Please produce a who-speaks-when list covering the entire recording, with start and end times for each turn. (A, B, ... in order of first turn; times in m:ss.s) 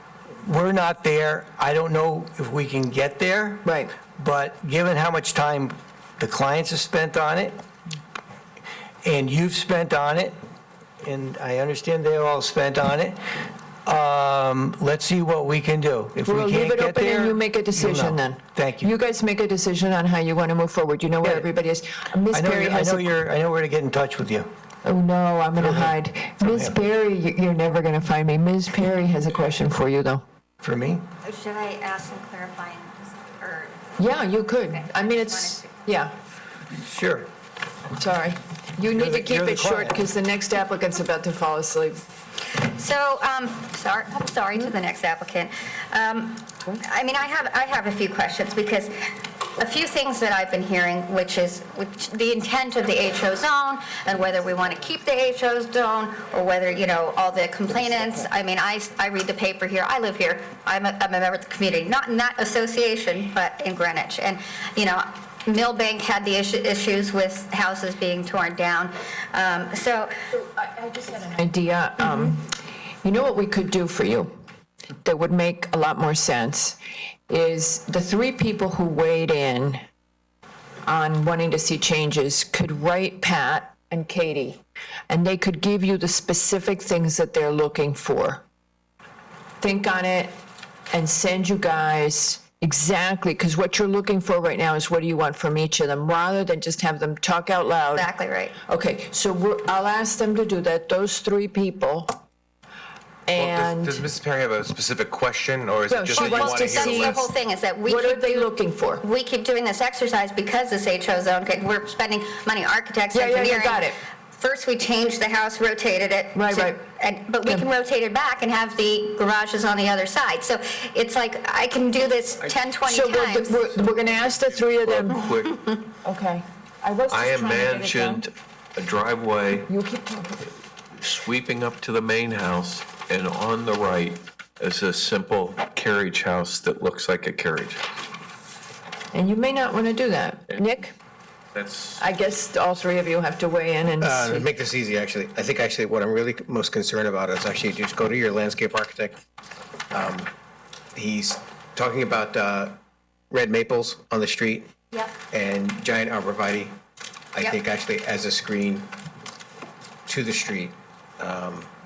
0:00.4-0:07.6 A
0:09.0-0:10.4 A
0:11.0-0:13.2 A
0:13.8-0:18.9 A
0:16.2-0:23.1 B
0:21.2-0:21.5 A
0:22.3-0:24.5 A
0:24.8-0:30.2 B
0:25.6-0:26.8 A
0:30.6-0:31.0 A
0:31.2-0:33.9 C
0:34.0-0:36.1 B
0:34.7-0:35.9 C
0:36.8-0:37.3 A
0:38.0-0:42.0 B
0:38.9-0:40.0 A
0:42.5-0:48.9 C
0:49.6-1:10.1 C
1:10.6-1:12.4 B
1:13.0-1:14.3 B
1:15.0-1:19.8 B
1:20.8-1:28.4 B
1:29.6-1:30.3 B
1:30.9-1:38.1 B
1:37.9-1:38.6 C
1:38.7-1:42.2 B
1:43.3-1:44.0 B
1:43.3-1:47.2 D
1:45.9-1:47.3 B
1:46.1-2:03.8 C
1:47.9-1:49.0 B
1:53.1-1:54.0 B
1:56.4-1:56.7 B
2:02.8-2:05.2 B
2:04.1-2:05.8 E
2:06.0-2:08.2 B
2:07.1-2:09.7 E
2:09.7-2:10.5 B
2:11.0-2:17.8 E
2:19.1-2:20.9 B
2:21.5-2:22.0 E
2:22.0-2:24.4 B
2:24.0-2:29.2 F
2:29.9-2:30.3 F
2:30.9-2:32.8 F
2:33.3-2:34.7 F
2:35.3-2:36.8 F
2:37.3-2:38.9 F
2:40.1-2:41.7 F